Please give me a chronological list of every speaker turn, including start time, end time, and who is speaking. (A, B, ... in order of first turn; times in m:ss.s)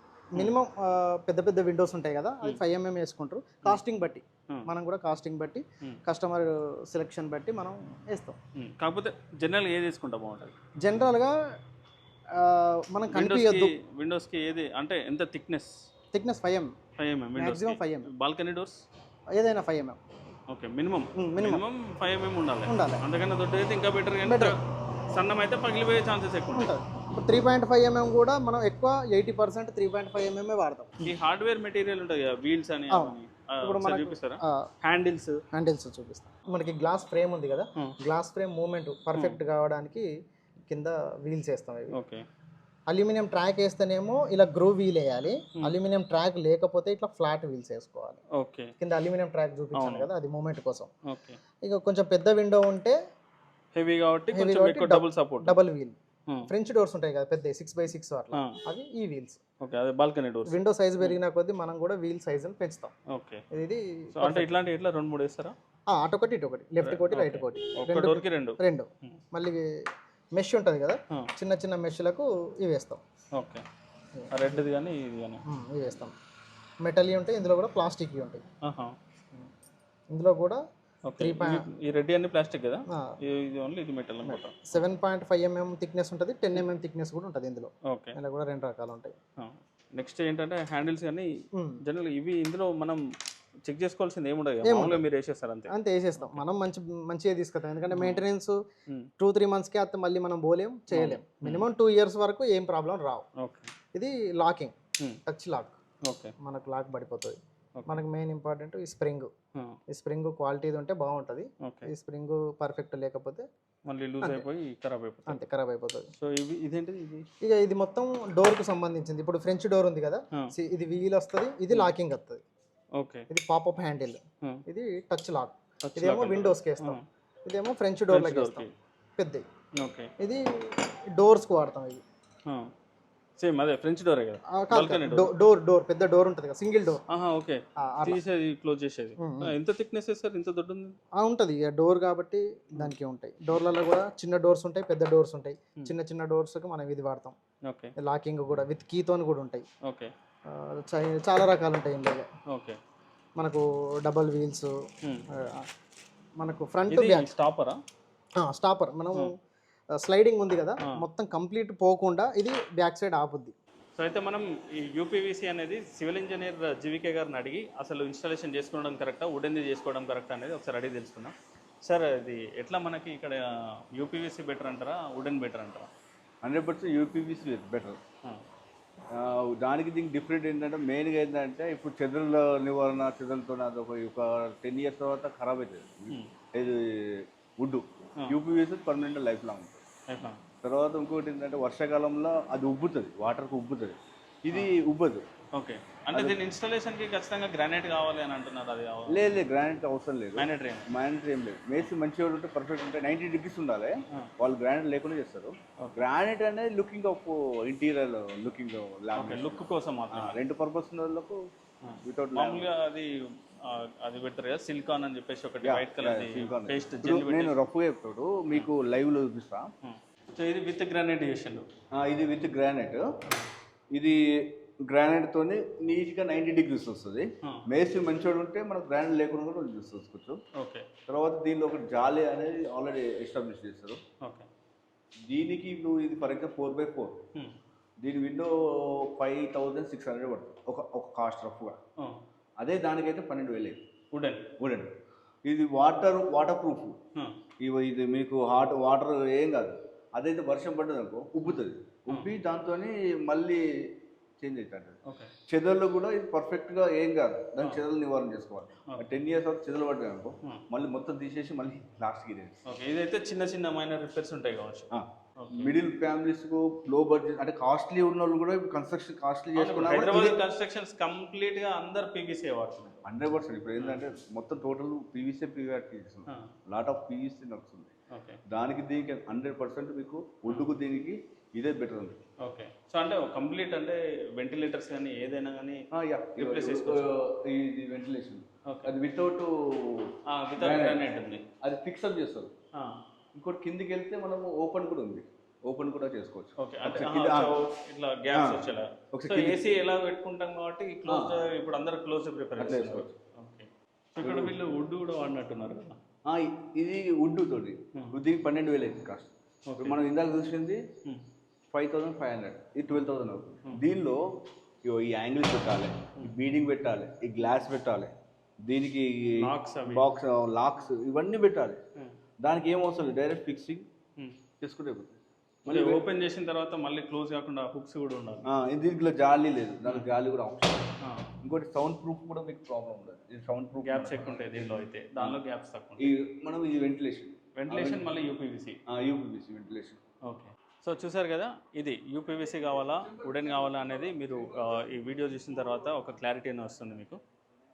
0:00.3-0:08.4 A
0:08.6-0:10.5 B
0:10.8-0:11.3 A
0:12.4-0:13.7 A
0:13.1-0:15.7 B
0:16.1-0:16.7 A
0:17.0-0:18.8 B
0:17.4-0:18.1 A
0:19.4-0:20.0 A
0:20.5-0:24.6 B
0:21.2-0:21.6 A
0:22.7-0:23.0 A
0:24.2-0:24.6 A
0:25.1-0:26.7 B
0:26.5-0:31.1 A
0:31.0-0:35.4 B
0:32.9-0:34.6 A
0:35.5-0:40.1 A
0:40.6-0:41.9 A
0:41.9-0:42.2 B
0:42.9-0:48.2 A
0:48.4-0:48.7 B
0:48.8-0:50.9 A
0:49.8-0:50.1 B
0:51.1-0:51.4 B
0:51.6-0:53.0 A
0:53.8-0:55.6 B
0:54.3-0:56.0 A
0:56.5-0:59.4 A
0:59.6-1:01.2 B
1:00.5-1:02.9 A
1:03.1-1:03.4 B
1:03.5-1:04.5 A
1:04.2-1:05.5 B
1:05.9-1:09.7 A
1:06.8-1:09.2 B
1:10.4-1:13.0 A
1:13.4-1:13.6 B
1:14.1-1:14.6 A
1:14.3-1:15.4 B
1:15.5-1:16.1 A
1:16.8-1:18.4 A
1:18.6-1:18.9 B
1:20.1-1:20.6 A
1:21.1-1:24.6 B
1:21.2-1:21.6 A
1:24.2-1:29.1 A
1:27.9-1:28.2 B
1:29.4-1:31.3 B
1:31.5-1:31.8 A
1:31.8-1:33.0 B
1:33.7-1:36.4 B
1:34.6-1:35.0 A
1:35.7-1:38.6 A
1:37.9-1:38.2 B
1:39.2-1:43.2 A
1:40.9-1:41.6 B
1:43.4-1:43.7 B
1:43.9-1:44.7 A
1:45.3-1:45.7 A
1:46.0-1:46.3 B
1:46.4-1:49.3 A
1:49.9-1:53.4 A
1:51.6-1:51.9 B
1:53.9-1:55.4 B
1:54.2-1:54.4 A
1:55.3-1:56.1 A
1:56.2-1:57.2 B
1:57.4-2:02.4 A
2:03.0-2:03.2 B
2:03.3-2:08.6 A
2:05.8-2:07.0 B
2:08.1-2:08.7 B
2:09.2-2:09.4 A
2:09.8-2:10.1 B
2:10.2-2:12.0 A
2:13.4-2:15.3 B
2:14.5-2:17.0 A
2:17.1-2:21.0 B
2:17.8-2:18.2 A
2:19.2-2:19.5 A
2:21.2-2:27.4 A
2:27.7-2:27.9 B
2:28.0-2:29.6 A
2:29.8-2:30.1 B
2:30.5-2:32.2 A
2:32.5-2:32.8 B
2:33.4-2:34.7 A
2:35.4-2:35.6 A
2:36.4-2:37.3 A
2:36.9-2:37.8 B
2:38.4-2:39.3 A
2:40.0-2:43.5 A
2:44.0-2:51.3 B
2:51.8-2:53.4 B
2:53.9-2:55.9 B
2:56.4-2:58.0 C
2:59.1-3:09.8 C
3:10.1-3:10.4 B
3:10.6-3:15.2 C
3:15.5-3:19.4 B
3:19.1-3:31.4 C
3:20.4-3:20.9 B
3:29.2-3:30.4 B
3:31.8-3:33.1 B
3:32.0-3:32.7 C
3:33.6-3:37.6 B
3:35.6-3:39.7 C
3:39.8-3:41.7 B
3:42.0-3:43.0 C
3:43.9-3:50.4 C
3:50.6-3:50.9 B
3:51.1-3:54.0 C
3:54.2-3:54.5 B
3:55.3-3:57.1 C
3:58.0-4:01.8 C
4:02.6-4:03.8 C
4:04.1-4:04.5 B
4:04.6-4:04.9 C
4:05.4-4:07.0 C
4:07.6-4:15.0 C
4:11.4-4:12.3 B
4:15.0-4:15.3 B
4:15.5-4:22.5 C
4:22.7-4:25.8 B
4:24.9-4:30.4 C
4:29.6-4:33.0 B
4:33.0-4:37.9 C
4:33.8-4:34.0 B
4:38.1-4:38.4 B
4:38.5-4:42.2 C
4:42.4-4:45.8 B
4:45.9-4:52.5 C
4:46.4-4:47.0 B
4:48.7-4:48.9 B
4:50.3-4:51.4 B
4:53.3-4:57.5 C
4:56.6-5:06.0 B
4:58.3-4:59.6 C
5:01.1-5:01.4 C
5:02.6-5:03.1 C
5:04.2-5:04.5 C
5:06.2-5:10.8 C
5:09.7-5:10.0 B
5:11.7-5:14.2 C
5:14.8-5:18.1 C
5:18.6-5:21.8 C
5:19.4-5:20.1 B
5:22.4-5:23.9 C
5:24.6-5:26.0 C
5:25.7-5:28.5 B
5:28.4-5:30.9 C
5:31.0-5:31.2 B
5:31.4-5:34.6 C
5:33.8-5:36.1 B
5:36.0-5:38.0 C
5:37.6-5:38.8 B
5:38.9-5:40.0 C
5:40.2-5:47.2 B